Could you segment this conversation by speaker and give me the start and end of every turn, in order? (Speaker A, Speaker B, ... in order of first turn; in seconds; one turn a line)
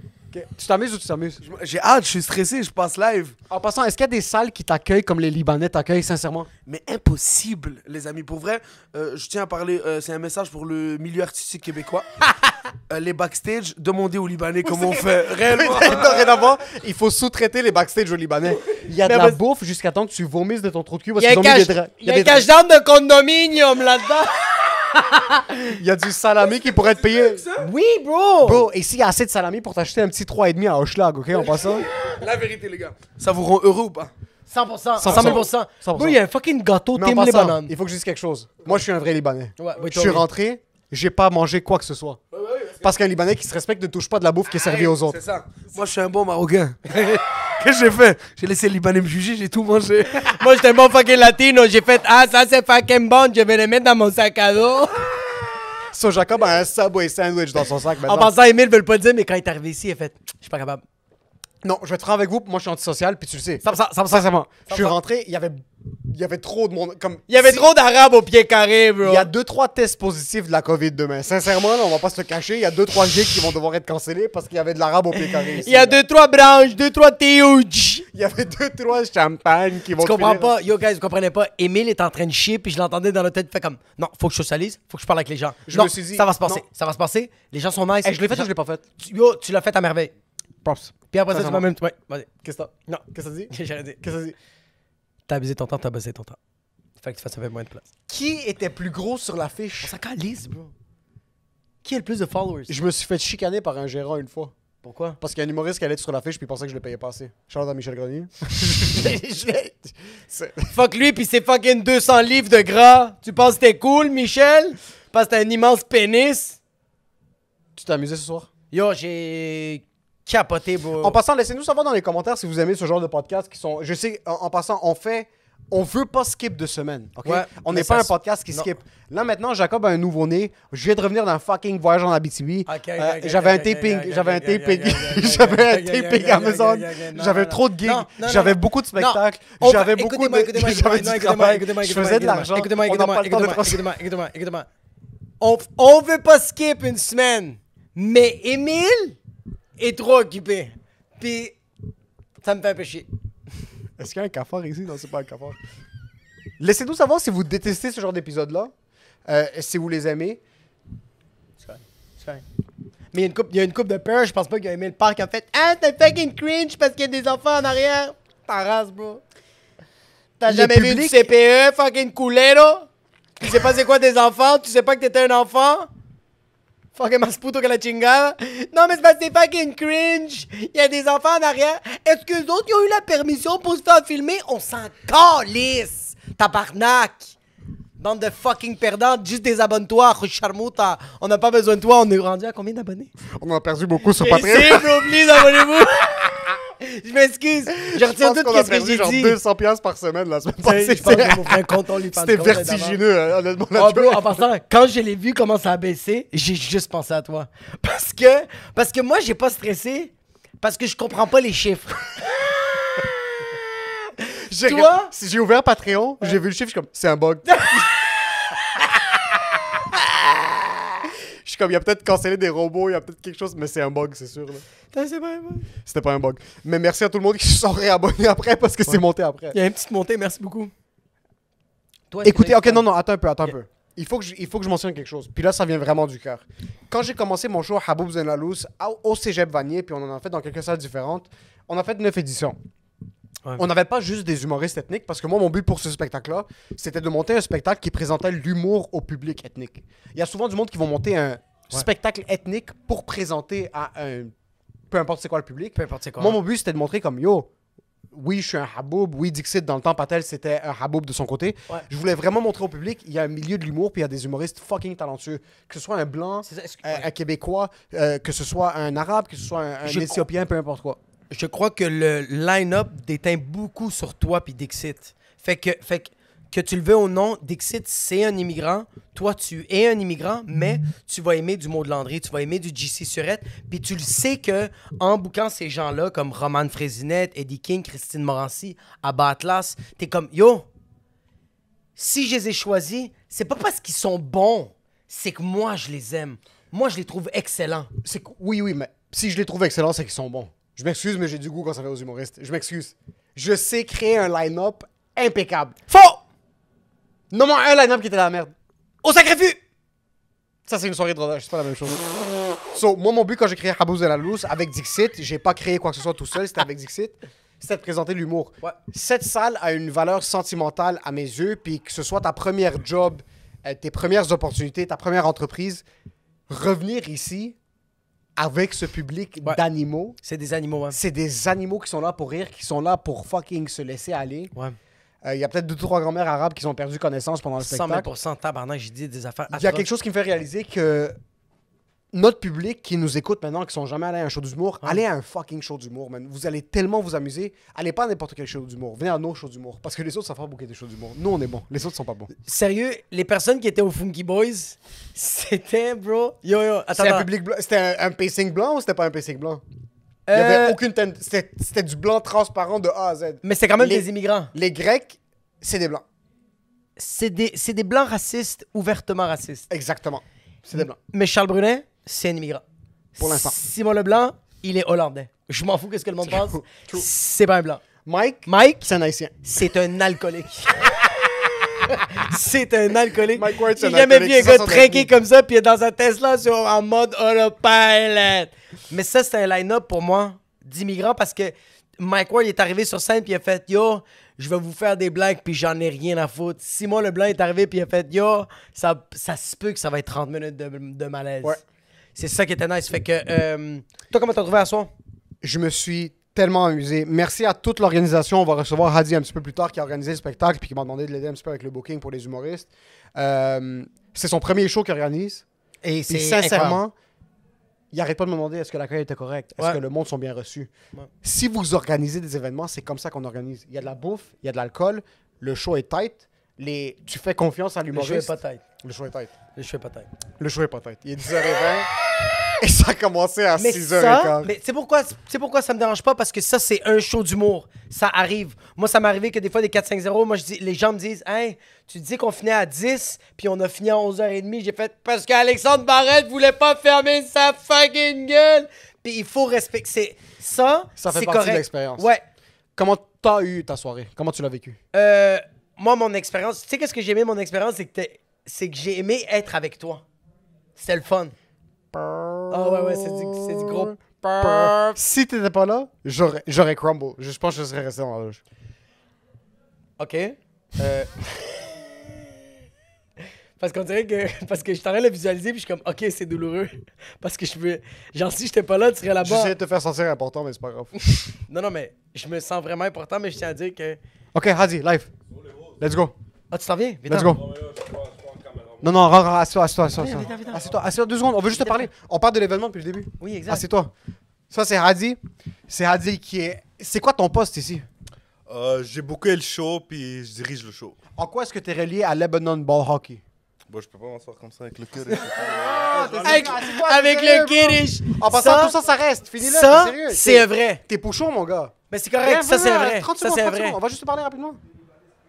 Speaker A: 0.3-1.4
Speaker B: 1.4-3.4
Speaker A: 3.5-6.5
Speaker B: 6.7-12.1
Speaker B: 12.9-16.4
Speaker A: 15.5-22.5
Speaker C: 19.1-19.4
Speaker C: 21.2-24.3
Speaker C: 24.9-25.7
Speaker A: 25.7-27.4
Speaker B: 26.6-27.7
Speaker C: 27.6-28.7
Speaker A: 28.4-31.9
Speaker B: 31.4-34.1
Speaker C: 34.5-37.7
Speaker A: 35.0-36.2
Speaker A: 36.9-42.2
Speaker C: 39.6-40.2
Speaker B: 42.3-42.9
Speaker A: 42.8-45.2
Speaker B: 44.5-50.4
Speaker C: 50.2-55.1
Speaker A: 55.9-58.3
Speaker C: 58.0-60.8
Speaker A: 61.6-67.7
Speaker C: 64.7-65.0
Speaker C: 67.3-69.3
Speaker A: 69.0-76.0
Speaker C: 75.6-78.1
Speaker A: 78.1-80.5
Speaker C: 80.0-90.1
Speaker A: 85.7-86.6
Speaker A: 88.0-88.8
Speaker A: 90.6-91.7
Speaker C: 91.1-92.3
Speaker A: 92.4-94.3
Speaker C: 92.9-94.0
Speaker C: 95.3-96.4
Speaker C: 97.0-97.9
Speaker A: 98.1-100.0
Speaker C: 99.8-100.7
Speaker C: 101.8-102.8
Speaker A: 102.7-104.5
Speaker C: 104.8-105.2
Speaker A: 105.2-110.7
Speaker C: 110.7-116.6
Speaker A: 117.8-118.5
Speaker C: 118.7-121.2
Speaker A: 121.0-143.9
Speaker C: 127.2-128.7
Speaker C: 132.7-144.7
Speaker C: 145.4-149.2
Speaker C: 149.8-151.6
Speaker C: 152.4-153.1
Speaker A: 154.0-155.6
Speaker A: 156.6-158.7
Speaker A: 159.3-160.4
Speaker C: 161.6-162.4
Speaker C: 163.1-169.2
Speaker C: 170.4-172.9
Speaker A: 170.5-171.3
Speaker C: 173.4-175.9
Speaker C: 177.0-187.3
Speaker C: 188.0-193.1
Speaker A: 193.4-195.1
Speaker C: 194.2-199.4
Speaker A: 197.8-204.4
Speaker C: 200.6-203.0
Speaker C: 203.8-212.3
Speaker A: 214.5-217.8
Speaker C: 214.6-215.1
Speaker C: 217.5-217.9
Speaker A: 221.4-224.6
Speaker C: 224.9-225.7
Speaker A: 225.8-229.6
Speaker C: 229.5-230.7
Speaker C: 232.1-232.9
Speaker A: 232.2-242.6
Speaker A: 243.6-254.3
Speaker A: 254.9-257.5
Speaker C: 255.8-256.4
Speaker A: 258.1-271.0
Speaker C: 266.4-267.1
Speaker C: 269.8-270.2
Speaker C: 271.3-290.7
Speaker C: 292.0-297.9
Speaker A: 298.0-305.9
Speaker C: 305.9-306.2
Speaker A: 307.3-308.5
Speaker C: 309.0-309.6
Speaker A: 310.7-312.0
Speaker A: 312.7-325.8
Speaker A: 326.5-327.6
Speaker A: 328.4-330.2
Speaker C: 330.2-331.0
Speaker A: 330.9-334.5
Speaker A: 335.2-338.1
Speaker C: 337.6-339.9
Speaker A: 339.5-341.2
Speaker A: 342.1-352.3
Speaker C: 352.5-357.3
Speaker A: 356.9-359.6
Speaker C: 360.3-360.8
Speaker A: 360.3-366.0
Speaker C: 363.4-364.5
Speaker C: 367.0-369.7
Speaker A: 369.7-371.0
Speaker C: 370.7-372.6
Speaker A: 373.2-373.6
Speaker C: 373.2-377.8
Speaker A: 376.3-377.1
Speaker A: 378.0-379.3
Speaker C: 378.5-378.8
Speaker C: 379.4-380.7
Speaker C: 381.9-401.6
Speaker A: 383.3-385.1
Speaker C: 402.1-404.9
Speaker A: 405.4-415.4
Speaker C: 415.8-416.8
Speaker A: 416.1-416.9
Speaker A: 417.9-420.7
Speaker A: 421.2-429.3
Speaker C: 427.9-428.6
Speaker C: 429.6-430.1
Speaker A: 430.4-431.9
Speaker A: 432.6-434.5
Speaker C: 433.6-452.2
Speaker A: 451.0-452.1
Speaker A: 452.8-454.8
Speaker C: 454.9-460.0
Speaker C: 460.8-461.3
Speaker A: 461.9-468.4
Speaker C: 462.5-465.0
Speaker C: 470.0-472.1
Speaker C: 473.6-479.5
Speaker A: 479.2-480.9
Speaker C: 481.5-484.0
Speaker A: 484.3-485.1
Speaker D: 485.3-485.8
Speaker A: 485.8-486.1
Speaker C: 486.5-487.4
Speaker A: 487.1-487.4
Speaker D: 487.2-489.2
Speaker A: 488.8-493.9
Speaker C: 490.0-490.7
Speaker D: 490.0-490.8
Speaker C: 491.5-491.8
Speaker C: 493.2-493.6
Speaker A: 494.5-497.9
Speaker D: 498.5-501.0
Speaker A: 501.2-503.2
Speaker D: 503.7-506.6
Speaker A: 505.4-514.6
Speaker C: 506.2-508.8
Speaker C: 509.4-510.8
Speaker C: 511.9-513.8